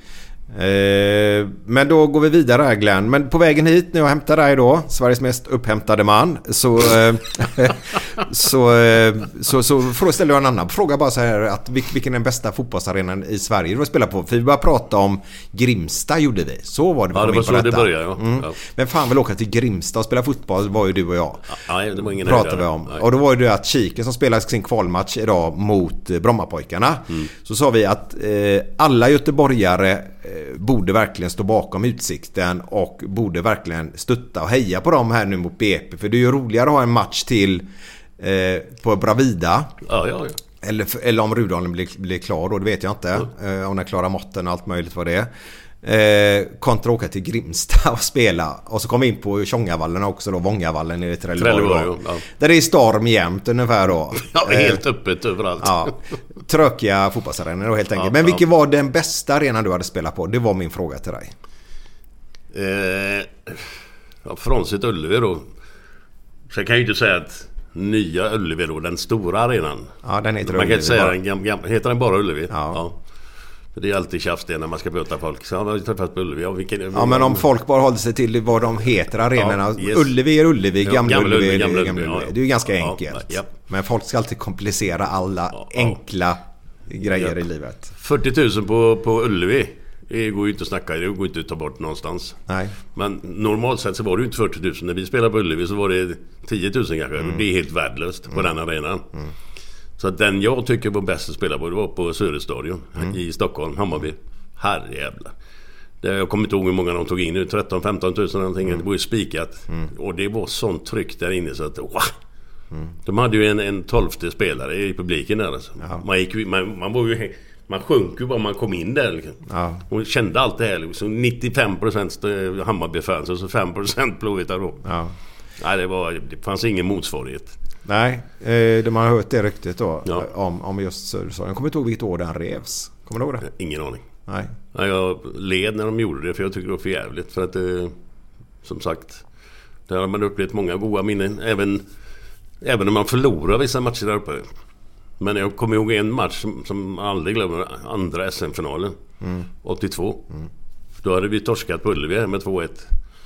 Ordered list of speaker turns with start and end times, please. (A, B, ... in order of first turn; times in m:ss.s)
0:00.5-0:37.7 A
0:17.1-0:18.6 B
0:21.5-0:23.0 B
0:38.2-0:39.7 A
0:39.8-0:40.4 B
0:40.6-0:45.3 A
0:45.8-0:54.8 A
0:51.4-0:52.2 B
0:54.1-0:56.1 B
0:55.6-1:01.3 A
0:57.9-0:58.4 B
1:02.5-1:03.7 B
1:04.2-1:05.5 B
1:06.5-1:09.9 B
1:10.0-1:11.2 A
1:10.4-1:13.0 B
1:12.5-1:12.8 A
1:13.7-1:17.4 B
1:16.9-1:27.9 A
1:19.3-1:20.1 B
1:20.8-1:23.5 B
1:25.5-1:26.0 B
1:27.1-1:27.4 B
1:28.0-1:32.4 B
1:32.5-1:32.7 A
1:32.9-1:39.1 B
1:40.0-1:45.3 B
1:46.0-1:52.1 B
1:53.0-2:04.8 B
1:59.5-1:59.8 A
2:04.8-2:05.1 A
2:05.6-2:07.6 B
2:07.8-2:13.5 A
2:13.4-2:14.0 B
2:14.3-2:14.5 A
2:14.7-2:17.9 B
2:18.6-2:19.2 B
2:19.9-2:21.8 B
2:22.6-2:24.5 B
2:25.2-2:29.0 B
2:29.2-2:29.4 A
2:29.6-2:30.3 B
2:31.0-2:32.9 B